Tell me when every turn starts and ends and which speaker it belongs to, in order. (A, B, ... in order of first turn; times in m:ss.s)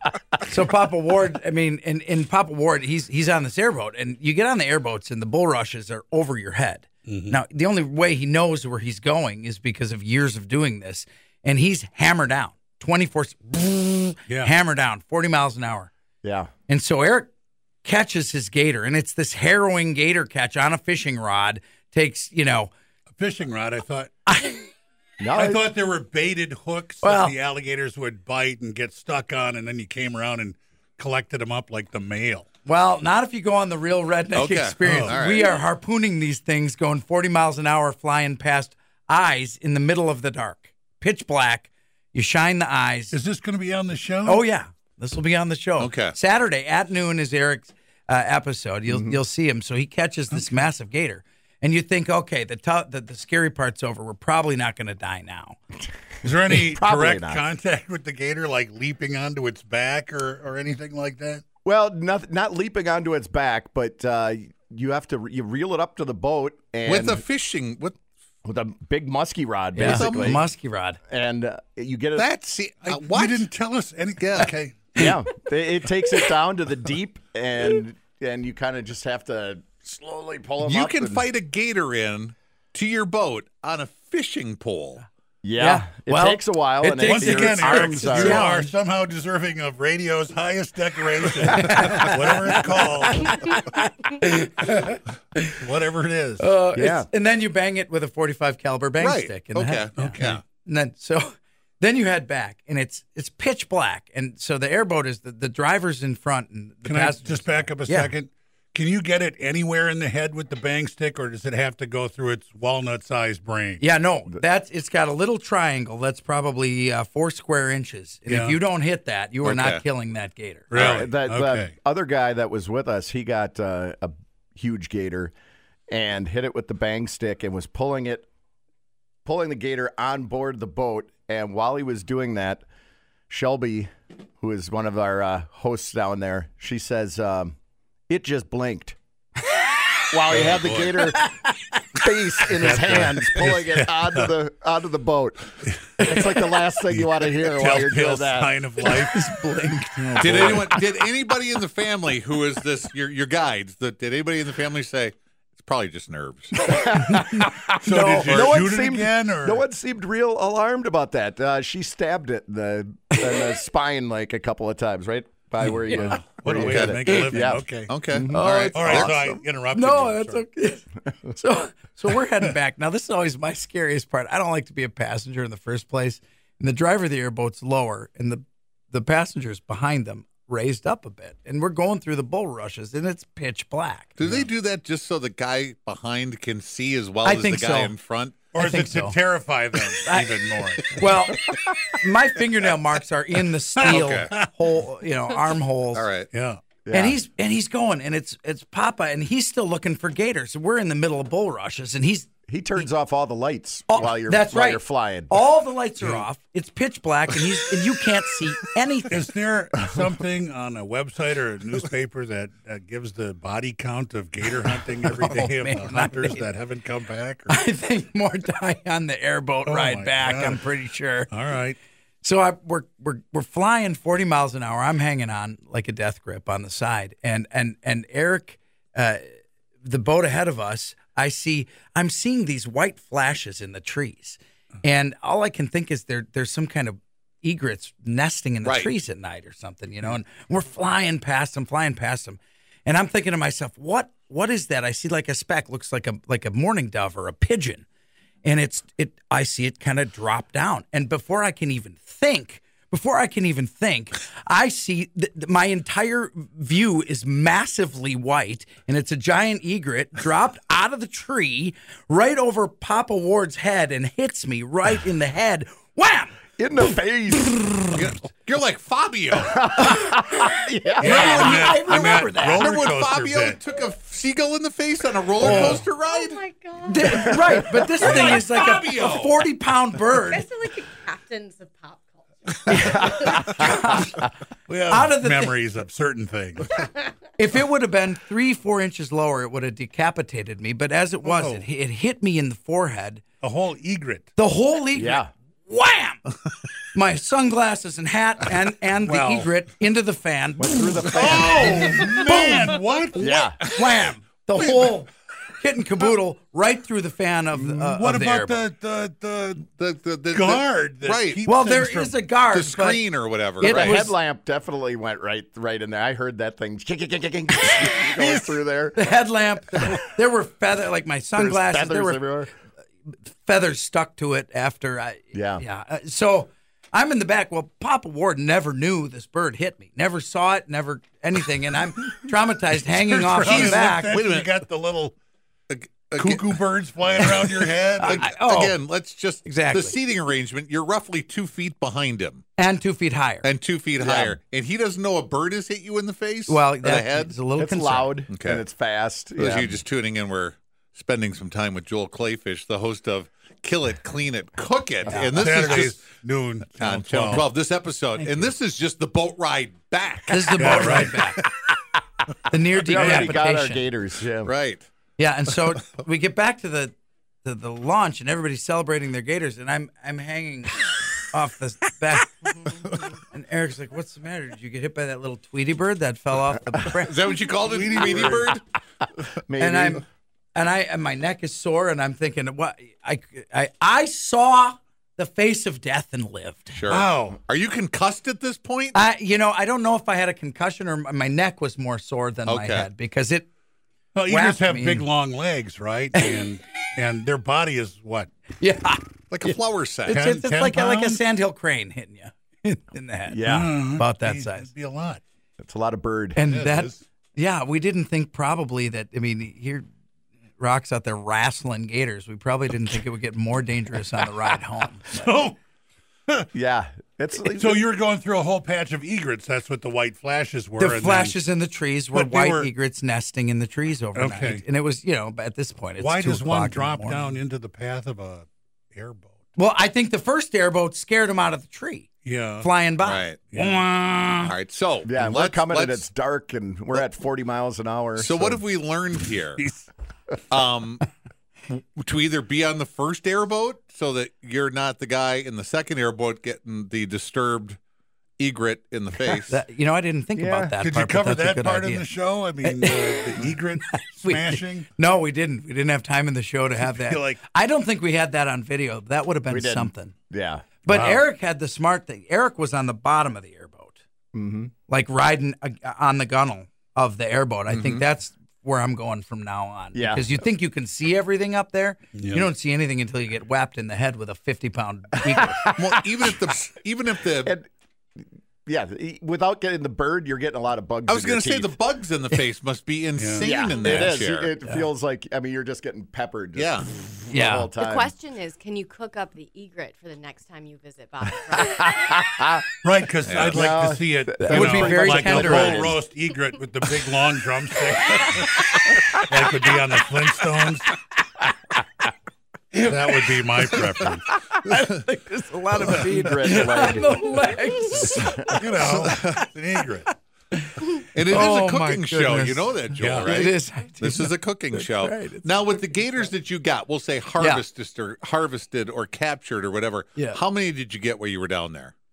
0:00.4-0:15.9 A
0:07.0-0:07.4 B
0:14.3-0:14.5 B
0:16.2-0:16.5 C
0:16.7-0:17.3 A
0:17.8-0:22.7 A
0:23.1-0:24.1 B
0:24.2-0:24.7 A
0:25.2-0:25.6 C
0:25.4-0:32.4 B
0:27.0-0:27.4 A
0:32.6-0:43.1 A
0:34.3-0:35.5 D
0:34.8-0:35.2 B
0:43.1-0:44.4 B
0:44.2-0:55.6 A
0:45.8-0:46.2 D
0:48.9-0:49.2 C
0:50.4-0:50.6 B
0:56.2-1:01.4 B
0:56.5-0:57.4 C
1:01.6-1:07.2 C
1:06.9-1:08.0 D
1:08.4-1:10.4 C
1:09.7-1:11.0 A
1:09.8-1:10.4 D
1:11.1-1:12.2 C
1:12.2-1:13.4 D
1:12.8-1:15.0 B
1:14.2-1:14.5 D
1:15.0-1:15.2 A
1:15.0-1:21.2 C
1:20.6-1:25.0 D
1:25.4-1:28.4 C
1:25.6-1:28.7 A
1:27.0-1:33.4 B
1:31.5-1:35.5 A
1:34.7-1:35.0 B
1:35.6-1:36.5 B
1:36.4-1:48.1 A
1:36.7-1:37.1 C
1:39.0-1:40.4 D
1:40.0-1:40.4 B
1:46.8-1:53.8 B
1:53.8-2:00.8 A
1:58.3-1:58.6 B
1:59.4-1:59.8 D
2:00.7-2:01.7 B
2:00.7-2:05.3 C
2:05.9-2:08.3 C
2:09.2-2:12.6 C
2:13.3-2:17.6 C
2:18.1-2:19.0 C
2:20.1-2:21.3 C
2:20.3-2:21.0 B
2:22.0-2:28.5 C
2:22.5-2:24.3 B
2:25.6-2:26.0 B
2:26.9-2:29.2 B
2:29.0-2:30.8 A
2:29.9-2:30.8 B
2:30.2-2:36.6 D
2:36.6-2:48.7 C
2:37.0-2:38.2 A
2:37.8-2:39.6 B
2:38.1-2:38.6 D
2:45.6-2:48.0 B
2:46.5-2:47.0 D
2:47.9-2:49.2 D
2:48.3-3:04.2 A
2:48.7-2:50.4 B
3:04.2-3:08.5 D
3:04.2-3:04.5 B
3:07.2-3:08.0 A
3:08.5-3:11.0 B
3:08.5-3:09.2 A
3:10.0-3:10.3 A
3:10.9-3:16.1 A
3:13.8-3:14.5 B
3:13.8-3:14.3 D
3:15.9-3:16.3 D
3:16.3-3:16.6 B
3:16.8-3:17.2 C
3:16.9-3:22.3 A
3:22.5-3:25.4 C
3:23.9-3:29.2 A
3:26.0-3:26.2 B
3:29.1-3:37.6 B
3:35.2-3:36.4 A
3:37.5-3:41.3 A
3:39.6-3:40.6 B
3:41.3-3:41.8 B
3:42.2-3:49.2 A
3:49.8-4:07.8 A
3:58.6-3:58.9 D
4:08.4-4:26.4 A
4:26.6-4:27.7 C
4:27.5-4:27.8 A
4:27.9-4:29.6 D
4:29.4-4:31.5 C
4:29.8-4:32.7 A
4:31.0-4:33.6 B
4:31.1-4:31.6 D
4:32.5-4:36.4 D
4:35.4-4:35.8 B
4:35.4-4:35.8 A
4:36.0-4:38.5 E
4:36.8-4:40.4 A
4:37.1-4:37.6 C
4:38.3-4:39.4 D
4:40.3-4:42.7 E
4:42.7-4:44.3 A
4:42.7-4:43.8 C
4:44.7-4:46.8 B
4:44.9-4:45.5 A
4:47.4-4:53.2 A
4:51.2-4:51.6 B
4:53.4-4:54.3 B
4:54.4-4:56.2 A
4:54.9-4:55.3 C
4:56.9-5:02.7 A
4:59.0-4:59.5 B
5:00.6-5:02.1 C
5:01.0-5:03.4 B
5:03.2-5:03.6 C
5:03.7-5:08.6 A
5:07.7-5:09.7 B
5:09.6-5:11.4 D
5:10.3-5:12.2 B
5:11.4-5:13.0 A
5:12.5-5:14.0 D
5:13.6-5:14.1 A
5:13.6-5:19.1 C
5:19.0-5:22.3 A
5:21.4-5:22.5 C
5:23.1-5:34.2 A
5:25.3-5:25.6 C
5:32.9-5:35.1 B
5:33.4-5:34.5 D
5:35.7-5:36.5 D
5:36.2-5:38.2 B
5:38.0-5:38.8 A
5:38.0-5:42.4 D
5:39.4-5:39.9 A
5:42.6-5:43.4 A
5:43.4-5:47.3 D
5:44.0-5:44.4 C
5:46.5-5:48.2 A
5:47.6-5:49.8 C
5:48.3-5:48.6 D
5:49.4-5:56.0 D
5:55.1-5:55.5 A
5:55.4-5:57.5 B
5:56.8-6:01.2 D
5:58.2-5:58.5 A
6:00.3-6:01.4 A
6:00.6-6:01.2 B
6:02.5-6:03.8 A
6:02.8-6:04.5 C
6:02.9-6:03.3 B
6:04.4-6:04.8 D
6:05.2-6:10.8 A
6:11.3-6:17.2 A
6:17.0-6:18.6 D
6:17.6-6:18.5 B
6:19.4-6:20.0 C
6:19.6-6:20.0 A
6:20.5-6:26.8 A
6:26.7-6:29.0 D
6:26.9-6:27.4 B
6:28.9-6:33.5 A
6:32.5-6:32.9 D
6:34.1-6:38.3 B
6:34.3-6:35.0 A
6:36.1-6:36.4 A
6:38.6-6:39.0 A
6:39.3-6:40.2 D
6:40.1-6:44.7 A
6:40.1-6:41.2 B
6:43.3-6:43.8 C
6:43.4-6:45.2 B
6:45.6-6:46.5 C
6:46.4-6:49.8 A
6:46.4-6:47.0 B
6:50.6-6:55.3 A
6:55.1-6:55.6 B
6:56.5-6:57.8 C
6:57.4-7:01.4 B
7:00.8-7:07.3 A
7:02.1-7:02.7 B
7:04.1-7:04.6 B
7:06.0-7:09.5 B
7:09.6-7:14.5 A
7:12.2-7:12.7 B
7:13.0-7:13.4 D
7:13.5-7:13.9 B
7:14.4-7:16.0 D
7:15.0-7:18.6 C
7:18.2-7:19.6 D
7:19.6-7:19.9 B
7:20.5-7:21.0 D
7:21.7-7:27.8 D
7:28.4-7:29.6 D
7:29.5-7:32.1 A
7:30.4-7:30.8 C
7:30.8-7:34.9 B
7:32.6-7:40.1 A
7:36.8-7:37.4 B
7:39.5-7:40.8 C
7:40.8-7:44.0 A
7:40.9-7:41.2 B
7:44.3-7:44.7 C
7:44.9-7:55.6 A
7:47.7-7:48.0 D
7:49.9-7:50.4 C
7:52.1-7:52.5 B
7:55.2-7:56.3 C
7:55.8-7:57.5 D
7:57.4-8:01.7 C
8:01.1-8:04.5 D
8:03.2-8:03.5 B
8:03.4-8:08.1 C
8:06.5-8:06.9 D
8:07.3-8:07.7 A
8:07.8-8:12.1 E
8:11.7-8:12.6 C
8:12.8-8:20.9 B
8:13.2-8:13.7 D
8:13.5-8:16.0 C
8:14.4-8:15.9 A
8:22.7-8:24.2 B
8:24.6-8:29.1 A
8:25.8-8:27.1 C
8:26.4-8:26.8 B
8:28.5-8:30.1 B
8:30.5-8:36.3 A
8:31.1-8:41.9 D
8:33.0-8:33.3 B
8:37.4-8:37.6 A